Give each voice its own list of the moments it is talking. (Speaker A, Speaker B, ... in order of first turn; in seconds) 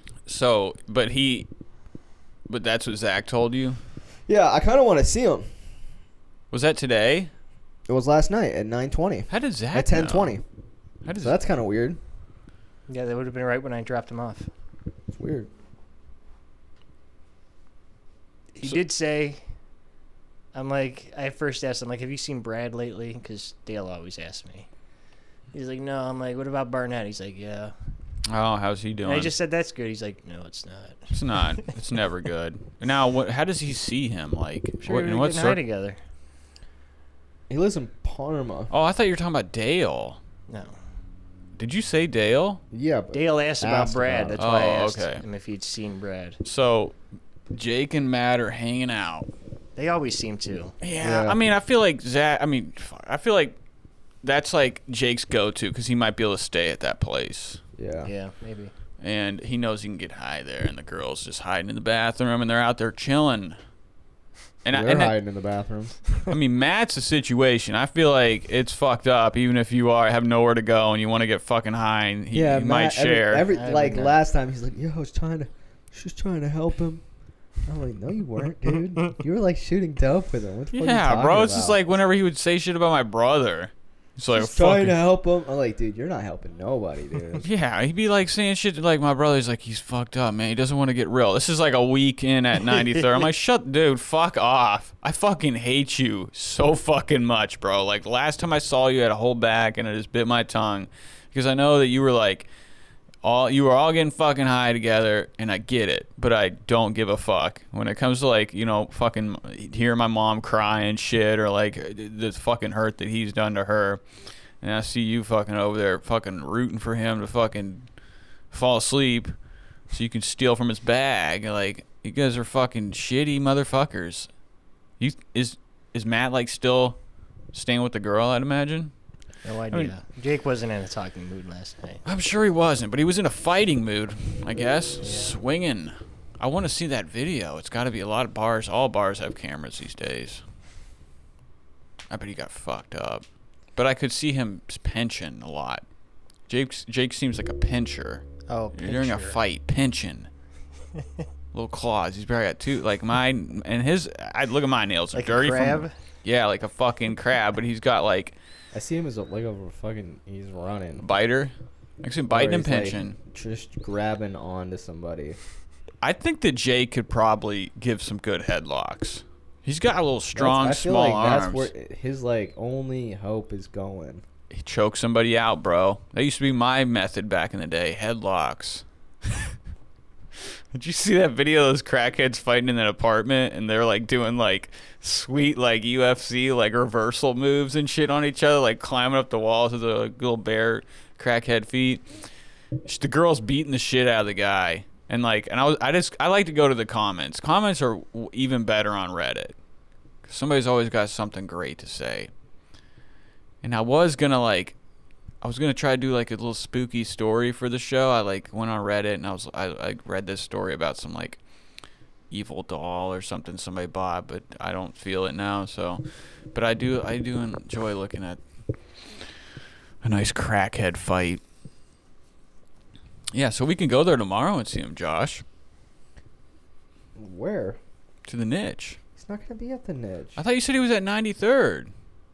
Speaker A: 0.2-1.5, 2.5-3.8, 6.5-7.3, 9.3-10.3, 11.0-11.4, 28.3-29.3, 31.1-35.6, 38.7-40.2, 41.6-42.6, 44.4-45.2, 46.4-47.0, 47.5-49.3, 50.8-53.6, 54.2-57.6, 59.0-63.6, 64.6-65.1, 66.3-73.5, 80.7-85.0, 87.4-102.5, 103.2-114.0, 114.6-117.9, 118.5-119.3, 119.9-124.3, 125.0-127.0, 127.5-128.9, 132.0-140.4, 142.1-143.2, 143.8-145.8, 146.5-150.3, 151.5-158.3, 161.0-163.2, 166.0-171.7, 174.5-179.5, 180.7-192.0, 192.8-199.6, 200.2-202.3, 203.6-204.8, 205.4-211.4, 212.3-216.0, 216.5-218.4, 220.0-221.4, 223.3-225.4, 228.2-229.0, 230.4-231.9
Speaker B: 4.3-5.5, 7.9-10.4, 11.2-12.0, 15.1-15.5, 37.5-38.7, 42.7-44.4, 51.0-51.4, 57.8-58.1, 64.7-66.0, 72.3-77.0, 77.6-81.8, 84.3-87.4, 158.7-161.0, 162.3-165.4, 170.3-174.2, 227.2-227.8, 229.2-230.4
Speaker C: 12.9-14.5, 18.5-19.4, 20.5-24.7, 25.5-27.7, 29.0-31.8, 34.8-36.0, 40.5-40.8, 43.1-46.4, 49.8-50.8, 58.0-58.7, 73.5-74.2, 92.7-93.2, 129.4-132.0, 135.0-135.4, 148.5-149.4, 155.1-155.9